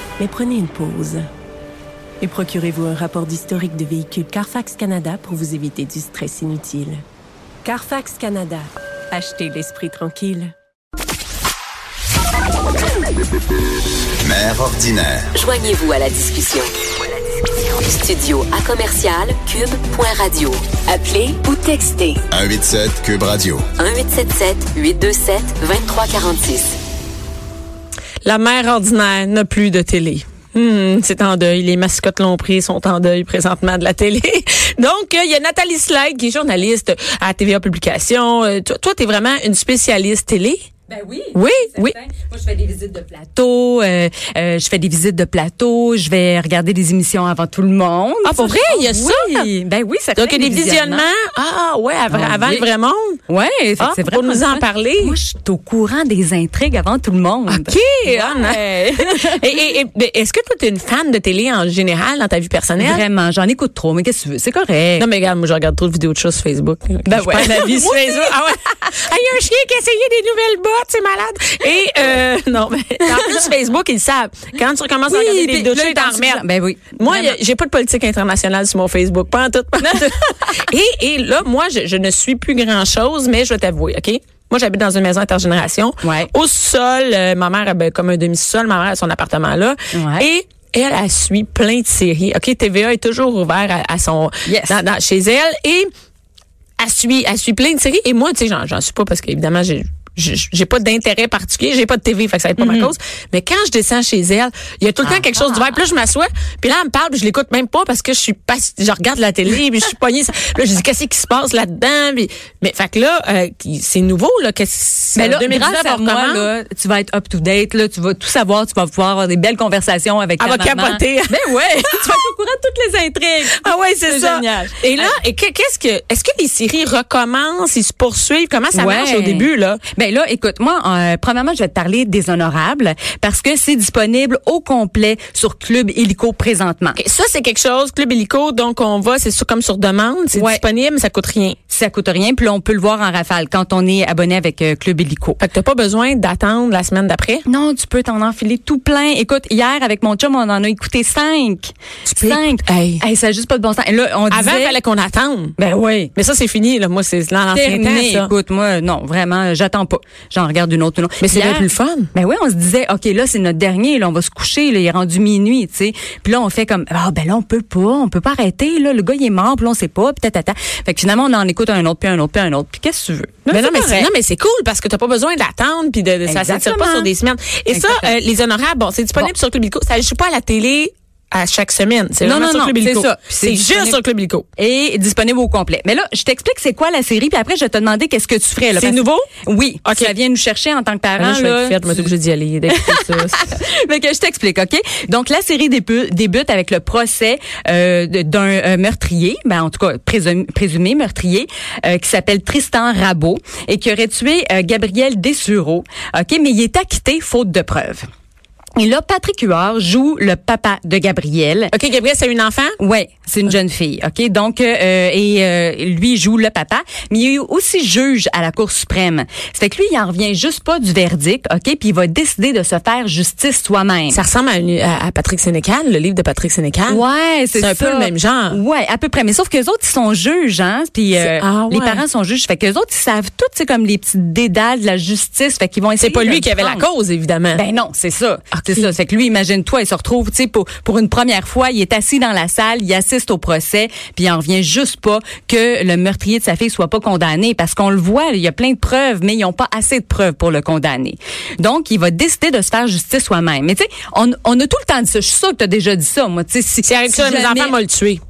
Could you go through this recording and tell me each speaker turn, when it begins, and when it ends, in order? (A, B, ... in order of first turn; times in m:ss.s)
0:00.2-0:01.2 A
0:02.2-0:07.0 A
0:07.6-0:10.5 A
0:14.2-0:15.4 B
0:15.3-0:16.7 A
0:15.4-0:16.7 C
0:17.8-0:20.5 C
0:20.0-0:22.2 A
0:22.3-0:23.7 B
0:23.8-0:26.7 A
0:23.9-0:26.5 C
0:28.2-0:40.6 D
0:40.9-0:51.0 E
0:41.3-0:42.0 D
0:48.2-0:49.5 D
0:50.1-0:53.2 D
0:52.1-0:52.7 E
0:53.3-0:59.4 E
0:53.8-0:55.2 D
0:57.5-1:03.0 D
1:02.8-1:05.1 E
1:05.0-1:16.4 D
1:07.0-1:08.4 E
1:13.0-1:13.5 E
1:15.1-1:17.4 E
1:17.0-1:35.9 D
1:19.9-1:20.6 E
1:26.0-1:26.3 E
1:29.9-1:30.3 E
1:34.4-1:34.8 E
1:36.8-1:56.5 D
1:42.6-1:42.9 E
1:45.0-1:45.4 E
1:55.2-2:05.1 E
2:00.4-2:02.3 D
2:03.6-2:09.8 D
2:08.7-2:17.0 E
2:17.0-2:21.6 D
2:20.3-2:20.6 E
2:21.7-2:25.4 E
2:25.4-2:27.4 D
2:27.4-2:34.8 E
2:32.0-2:33.0 D
2:34.3-2:35.6 D
2:35.6-2:36.1 E
2:36.1-2:38.3 D
2:37.5-2:54.1 E
2:41.2-2:42.1 D
2:53.5-3:04.4 D
2:56.3-2:57.1 E
2:57.7-2:58.1 E
3:02.2-3:04.0 E
3:04.6-3:12.1 E
3:08.8-3:09.3 D
3:09.8-3:10.1 D
3:11.2-3:13.4 D
3:12.7-3:28.0 E
3:28.8-3:31.7 E
3:31.7-3:32.8 D
3:32.8-3:44.2 E
3:44.1-3:47.0 D
3:46.9-3:56.8 E
3:47.5-3:48.6 D
3:51.2-3:52.0 D
3:56.0-3:57.6 D
3:57.5-4:17.7 E
3:58.5-3:58.9 D
4:16.8-4:18.2 D